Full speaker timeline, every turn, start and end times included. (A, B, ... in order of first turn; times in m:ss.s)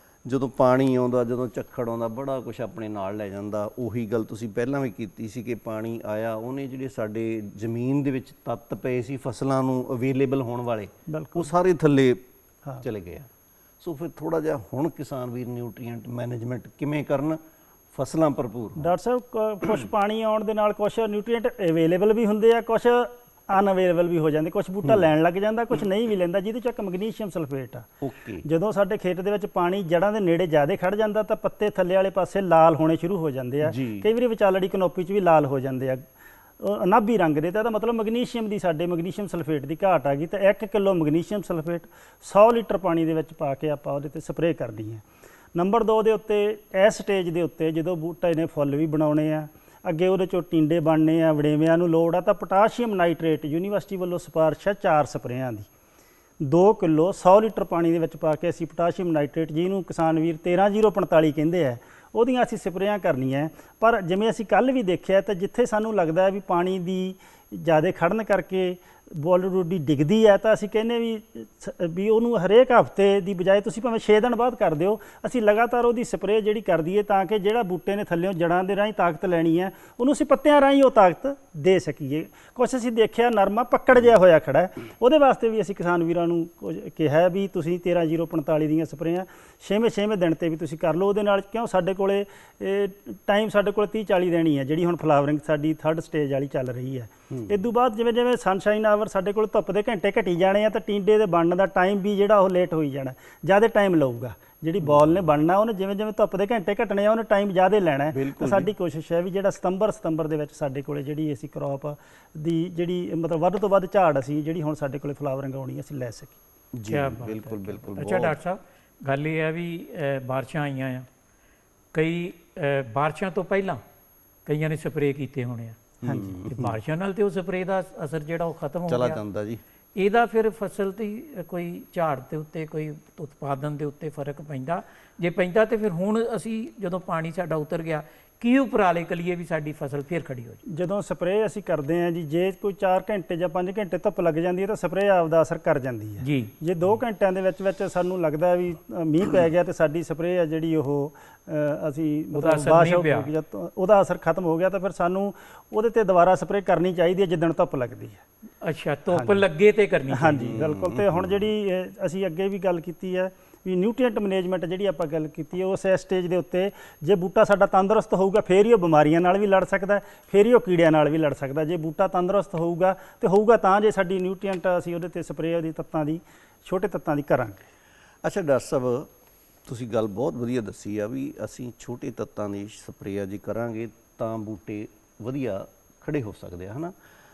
0:00.2-0:12.2 A
0:11.1-0:11.5 B
0:12.8-0:13.3 A
0:13.8-0:17.4 A
0:17.9-0:18.9 A
0:18.8-0:27.9 B
0:28.0-0:28.4 A
0:28.4-0:36.0 B
0:33.6-0:34.1 A
0:36.6-0:45.0 B
0:45.5-0:55.7 B
0:56.4-1:56.4 B
1:37.3-1:37.6 A
1:44.8-1:45.3 A
1:48.1-1:48.7 A
1:56.7-1:58.4 A
1:56.9-2:01.1 C
2:01.9-2:03.8 C
2:04.4-2:05.9 C
2:06.0-2:06.8 A
2:06.0-2:06.3 B
2:06.4-2:09.2 C
2:08.9-2:09.6 A
2:10.0-2:20.6 C
2:20.7-2:38.2 B
2:26.2-2:26.5 C
2:32.3-2:33.3 C
2:38.6-2:40.6 C
2:39.1-2:39.4 B
2:40.1-2:57.6 B
2:40.4-2:41.5 A
2:58.2-2:59.1 A
2:59.6-3:06.9 A